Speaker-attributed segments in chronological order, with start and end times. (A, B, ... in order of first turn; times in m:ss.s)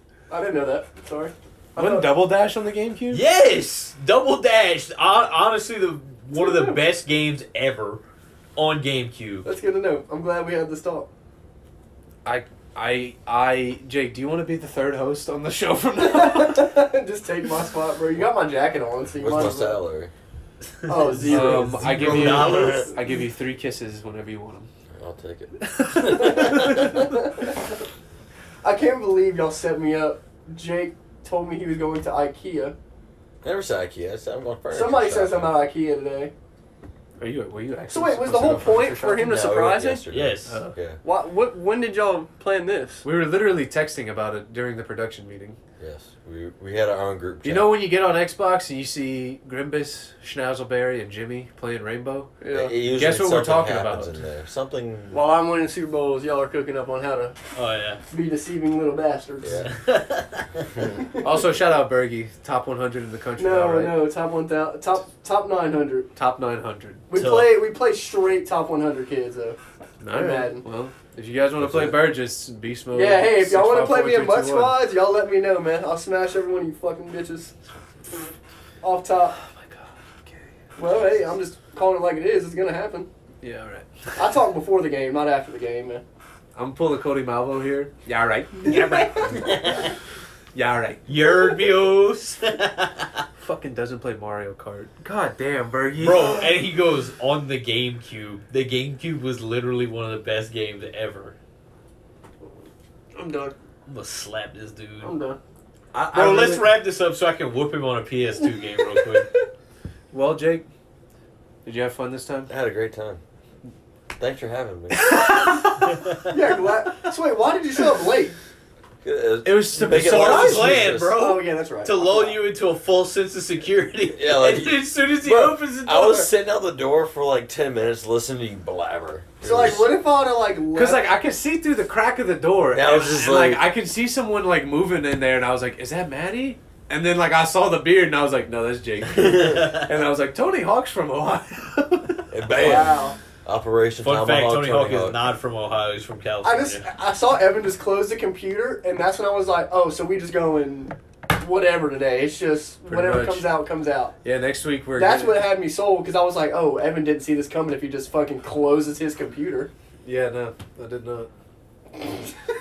0:00.3-0:02.1 A
0:01.8-0:03.2 B
0:03.1-0:08.0 C
0:06.3-0:06.8 A
0:08.6-0:09.4 C
0:09.4-0:11.1 A
0:12.2-0:16.7 B
0:16.0-0:19.8 A
0:19.2-0:20.1 D
0:20.8-0:22.8 A
0:21.1-0:23.0 C
0:21.1-0:24.7 B
0:22.4-0:22.7 D
0:24.9-0:25.7 D
0:25.9-0:26.5 C
0:26.1-0:27.5 A
0:28.6-0:32.8 A
0:33.4-0:35.6 D
0:34.7-0:36.3 A
0:37.2-0:39.3 B
0:37.9-0:40.0 A
0:39.2-0:41.0 D
0:40.1-0:40.6 C
0:40.5-0:40.8 B
0:41.0-0:43.0 A
0:43.0-0:45.6 B
0:45.8-0:47.8 D
0:47.4-0:52.4 B
0:52.4-0:52.8 A
0:52.5-0:55.2 D
0:52.9-0:54.2 B
0:55.1-0:57.4 A
0:57.5-0:58.0 C
0:58.1-0:59.7 A
0:59.4-0:59.7 D
0:59.6-1:00.4 C
1:01.0-1:01.3 A
1:01.2-1:04.0 B
1:03.4-1:06.1 A
1:06.1-1:07.0 B
1:07.1-1:09.6 A
1:07.1-1:07.6 C
1:10.0-1:14.8 B
1:10.1-1:10.6 A
1:11.6-1:12.1 D
1:12.9-1:17.5 A
1:18.8-1:19.4 A
1:19.4-1:21.3 B
1:20.8-1:23.1 A
1:23.4-1:24.2 B
1:24.2-1:26.0 A
1:26.5-1:29.8 B
1:28.6-1:29.7 A
1:29.4-1:29.8 C
1:30.5-1:31.0 B
1:31.0-1:33.1 C
1:33.4-1:36.6 B
1:36.0-1:41.3 C
1:43.1-1:43.5 A
1:43.8-1:45.1 C
1:45.0-1:45.4 A
1:45.9-1:46.7 B
1:46.1-1:49.3 C
1:48.6-1:49.4 A
1:50.1-1:50.6 B
1:51.6-1:52.5 B
1:52.5-1:53.2 D
1:54.2-1:55.2 D
1:54.9-1:55.8 B
1:55.3-1:58.4 A
1:59.0-2:01.0 D
1:59.4-2:01.1 B
1:59.9-2:06.3 C
2:01.1-2:02.4 A
2:04.1-2:09.9 D
2:09.4-2:11.1 A
2:10.7-2:22.8 B
2:12.7-2:13.6 D
2:19.2-2:19.6 D
2:22.3-2:25.2 D
2:22.5-2:23.2 A
2:24.0-2:26.9 C
2:26.4-2:34.1 A
2:32.8-2:33.6 B
2:34.2-2:35.4 B
2:35.0-2:39.7 A
2:40.0-2:41.3 B